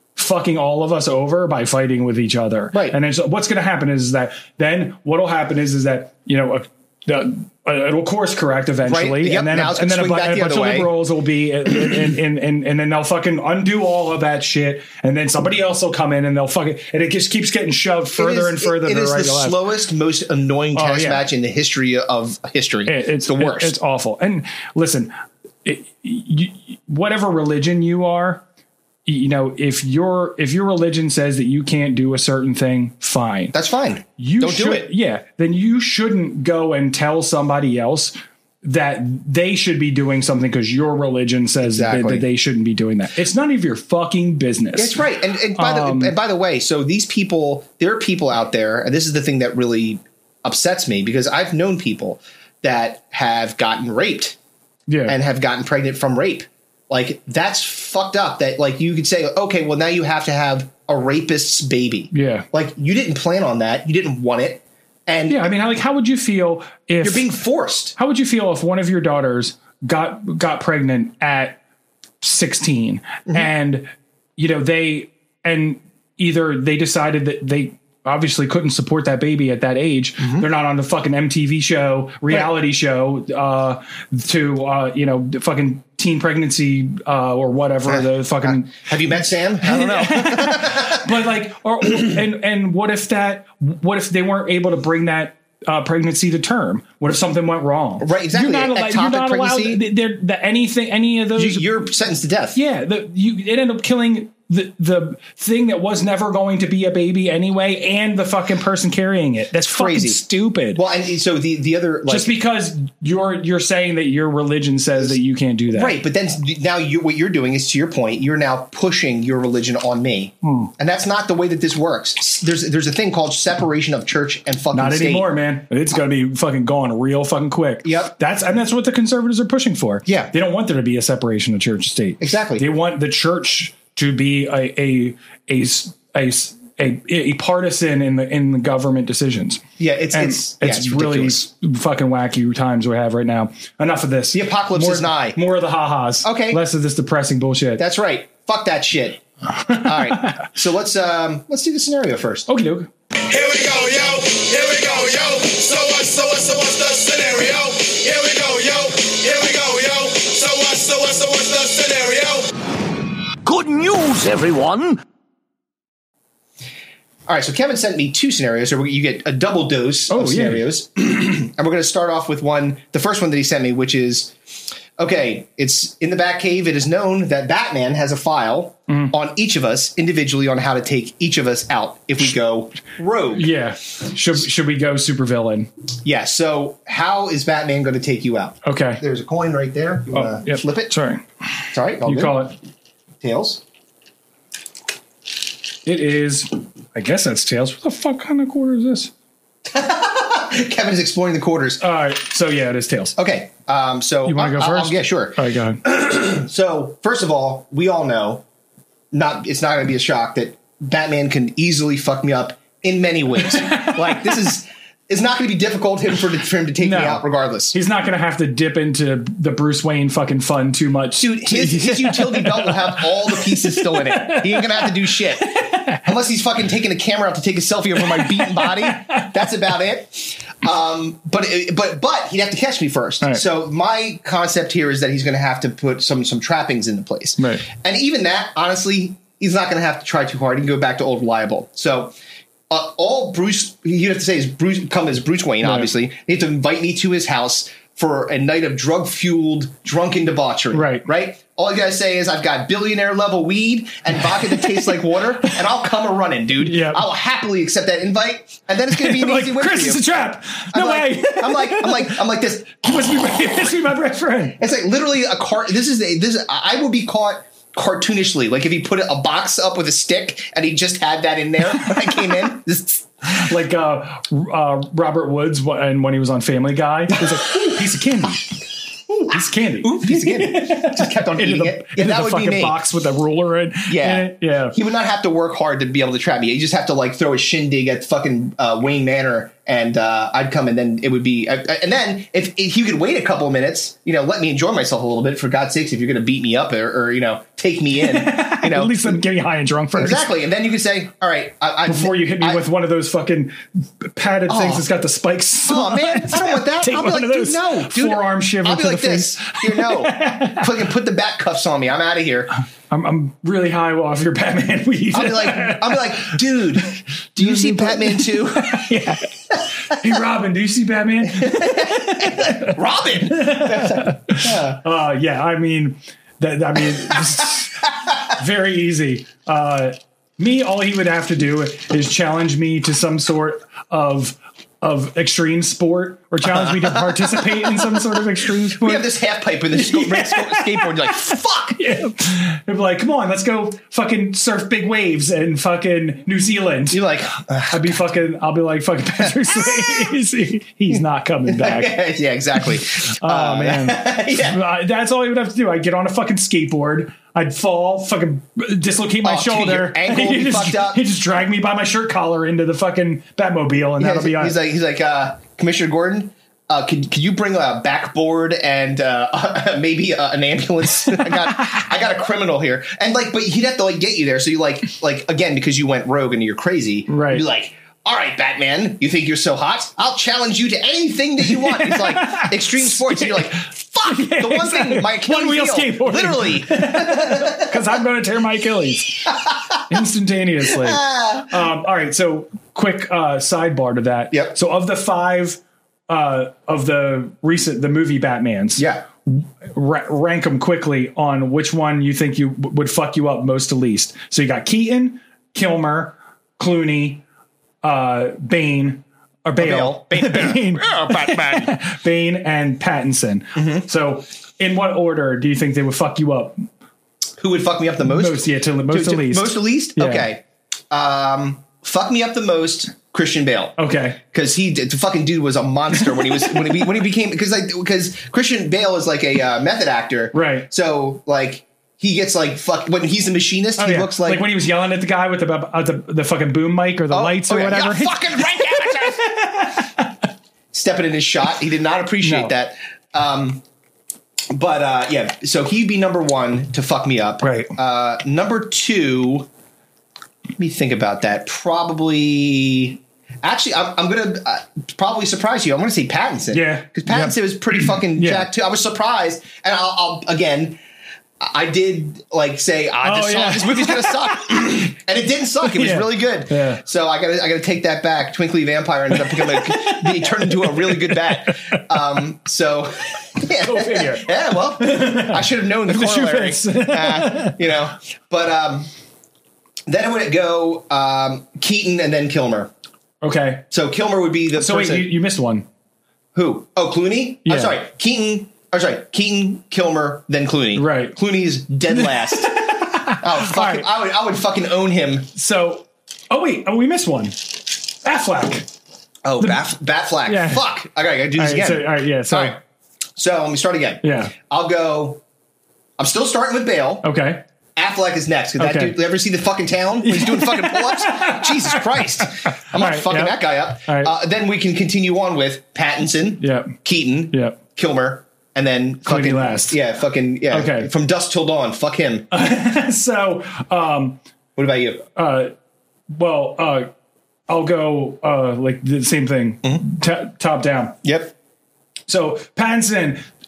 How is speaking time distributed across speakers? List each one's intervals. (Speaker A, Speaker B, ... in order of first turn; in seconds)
Speaker A: 0.1-19.6, 20.7-21.2, 22.9-25.1, 25.6-28.4, 29.1-33.5, 34.2-45.0, 45.5-46.1, 54.9-55.1, 62.1-62.5, 65.3-67.3, 67.9-71.6, 72.2-88.9, 89.6-101.7, 102.5-110.8, 112.1-116.0, 120.4-120.7, 124.7-147.8, 149.7-150.4, 152.5-152.9, 170.1-170.6, 183.3-185.7, 188.6-189.0, 190.1-191.2, 192.0-192.6, 195.8-199.1, 201.8-203.1, 204.2-205.8, 216.8-226.0, 228.2-229.3, 237.4-237.7, 245.6-245.9, 250.7-251.1, 256.6-257.1, 258.9-262.2, 262.7-264.6, 273.2-278.6, 279.1-284.8, 298.0-300.2, 301.9-310.7, 312.9-316.4, 317.4-319.3, 319.8-339.1, 339.7-347.0, 347.7-351.9, 353.1-364.6, 377.1-377.4, 381.4-389.4, 389.9-407.2, 407.8-416.6, 418.0-420.3, 423.8-424.2, 430.3-430.7, 433.8-440.1, 442.2-442.5, 447.4-447.7, 456.5-458.5, 463.0-464.3, 465.7-466.8, 469.2-471.8, 473.5-477.6, 483.2-483.6, 484.5-485.6, 487.4-487.8, 490.7-491.2, 491.9-493.9, 495.3-498.7, 500.2-500.6, 501.4-502.6, 504.0-504.3, 507.0-507.4, 508.6-508.9, 510.0-514.1, 516.4-516.7, 517.3-517.6, 519.0-519.8, 520.5-520.9, 522.3-524.2, 525.1-525.5, 526.1-526.9, 527.5-531.0, 532.1-533.2
Speaker B: 8.8-10.9, 18.1-23.7, 33.5-34.9, 41.6-42.2, 44.8-54.4, 55.1-65.5, 67.0-67.9, 80.2-80.5, 87.9-91.1, 98.0-99.8, 101.3-102.6, 109.7-110.2, 110.7-112.3, 115.7-125.3, 127.8-128.1, 130.1-130.3, 132.2-132.6, 139.8-141.4, 144.3-145.4, 146.2-146.6, 147.8-152.5, 167.3-174.3, 175.0-183.5, 186.0-190.9, 191.7-192.5, 193.2-193.6, 199.7-201.8, 203.2-208.4, 209.1-217.7, 221.2-242.1, 242.7-260.1, 260.7-262.8, 264.6-273.1, 277.3-277.7, 279.8-282.8, 283.9-299.2, 299.9-302.6, 304.5-304.9, 305.6-312.5, 315.1-318.9, 321.3-324.8, 336.5-338.2, 338.8-341.8, 346.9-348.0, 349.2-350.0, 351.5-354.6, 359.2-361.0, 364.0-387.8, 390.8-391.5, 394.3-394.6, 398.8-399.0, 409.6-411.7, 413.6-413.8, 417.4-434.4, 437.1-439.3, 440.7-443.6, 444.5-449.5, 450.6-460.8, 461.4-478.9, 479.9-482.7, 483.7-485.1, 486.3-495.3, 499.2-502.6, 503.2-505.2, 506.0-507.0, 507.8-522.3, 524.5-525.0, 531.0-531.3
Speaker C: 153.2-162.5, 163.4-164.9